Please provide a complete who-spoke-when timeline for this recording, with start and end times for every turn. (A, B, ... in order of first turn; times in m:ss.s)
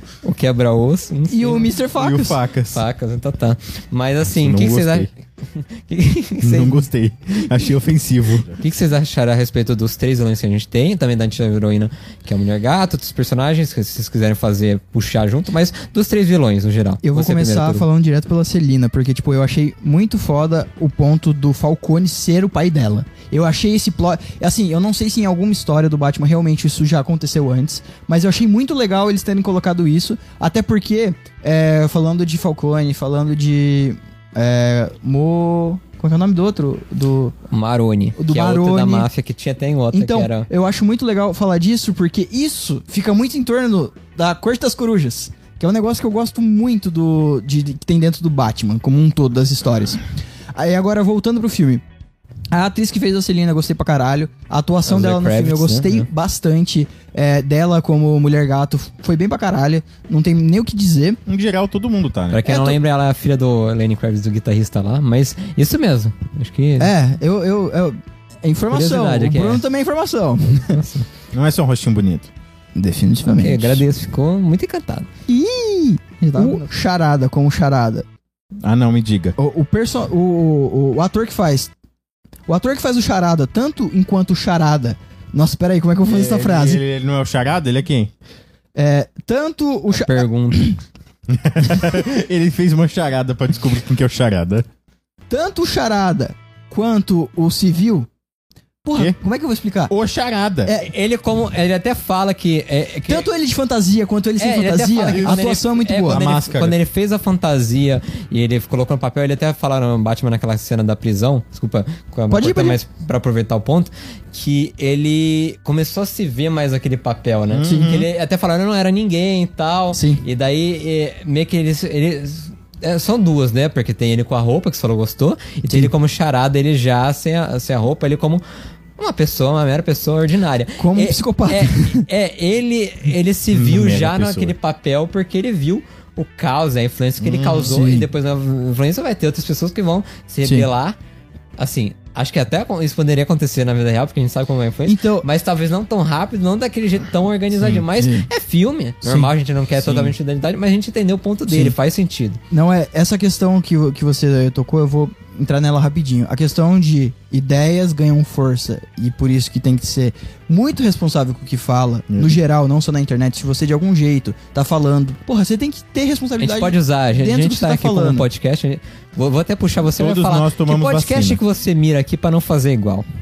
0:00.2-0:01.7 A
0:01.3-0:02.4 B
0:02.0-0:02.8 C
0:02.7-0:06.8 A
0:04.3-0:05.1 C
0:06.4-0:08.6 C
0:08.6-0:17.8 A
0:17.0-0:37.3 B
0:37.5-0:40.5 A
0:38.2-0:39.1 B
0:39.9-0:50.0 B
0:50.5-0:51.8 B
0:52.5-1:01.2 B
0:54.8-0:56.1 A
1:01.2-1:02.5 C
1:02.3-1:06.9 A
1:02.5-1:02.8 B
1:06.8-1:10.8 B
1:08.7-1:09.6 A
1:10.7-1:11.0 A
1:11.3-1:12.3 C
1:12.7-1:13.8 B
1:13.2-1:15.1 A
1:15.3-1:18.0 B
1:16.3-1:16.6 A
1:18.6-1:19.3 C
1:19.4-1:21.7 B
1:22.5-1:26.8 B
1:26.1-1:28.1 C
1:28.7-1:30.8 B
1:29.9-1:30.7 A
1:31.3-1:34.6 C
1:35.3-1:38.1 B
1:38.8-1:39.9 B
1:39.9-1:40.7 C
1:40.7-1:43.2 A
1:43.1-1:46.2 B
1:44.4-2:08.4 A
1:45.1-1:45.4 C
1:46.0-1:46.8 C
1:52.3-1:52.8 B
1:57.5-1:58.1 C
1:57.6-1:57.9 B
1:59.9-2:00.2 B
2:09.0-2:21.0 A
2:10.8-2:12.1 B
2:13.5-2:14.5 C
2:17.2-2:17.7 C
2:17.6-2:18.1 B
2:21.6-2:32.4 A
2:24.8-2:25.2 B
2:27.6-2:27.8 C
2:28.0-2:28.3 B
2:29.0-2:29.3 B
2:29.8-2:30.1 C
2:31.5-2:31.7 B
2:32.5-2:48.3 B
2:42.1-2:42.4 C
2:46.4-2:53.0 A
2:50.0-2:51.4 C